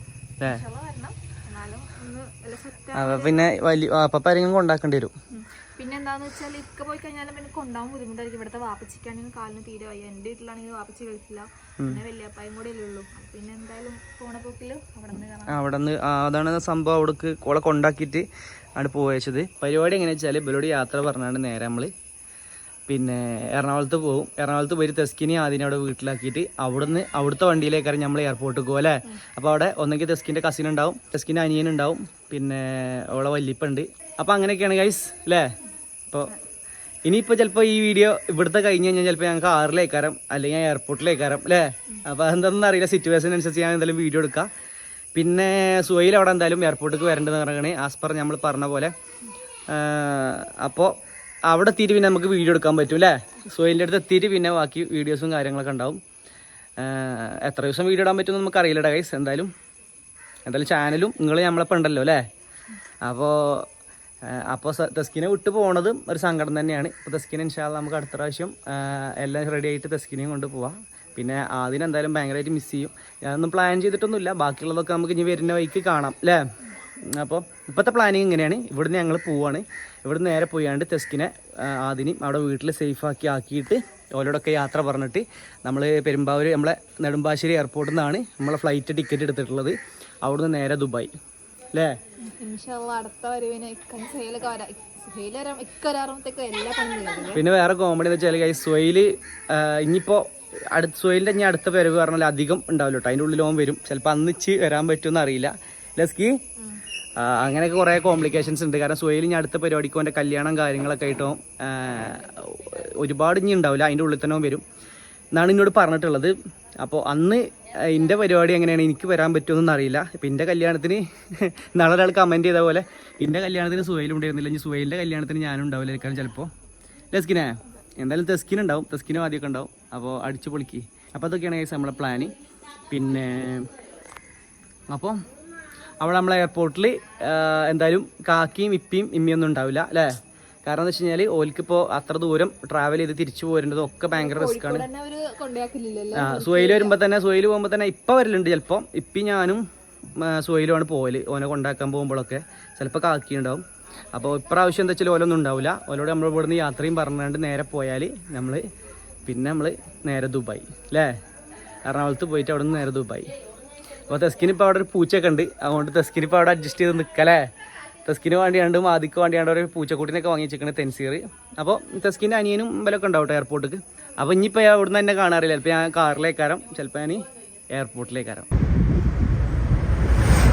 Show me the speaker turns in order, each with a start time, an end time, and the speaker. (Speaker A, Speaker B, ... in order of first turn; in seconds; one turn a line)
Speaker A: 0.4-3.5
Speaker B: 2.9-5.1
Speaker A: 5.3-15.6
Speaker B: 15.5-18.2
Speaker B: 18.8-21.9
Speaker B: 22.9-35.5
Speaker B: 37.0-44.5
Speaker B: 45.1-48.9
Speaker B: 49.7-50.9
Speaker B: 51.5-56.0
Speaker B: 56.8-59.5
Speaker B: 60.5-62.2
Speaker B: 63.0-63.7
Speaker B: 64.2-76.5
Speaker B: 77.0-91.1
Speaker A: 92.3-97.4
Speaker B: 97.3-106.4
Speaker B: 107.2-114.6
Speaker B: 115.3-126.5
Speaker B: 127.1-132.3
Speaker B: 132.9-133.7
Speaker B: 134.9-135.2
Speaker B: 136.0-140.1
Speaker B: 140.6-144.9
Speaker A: 144.1-147.0
Speaker B: 146.1-149.6
Speaker B: 150.1-158.7
Speaker B: 159.2-161.2
Speaker B: 161.8-163.3
Speaker B: 164.1-167.5
Speaker B: 168.0-178.5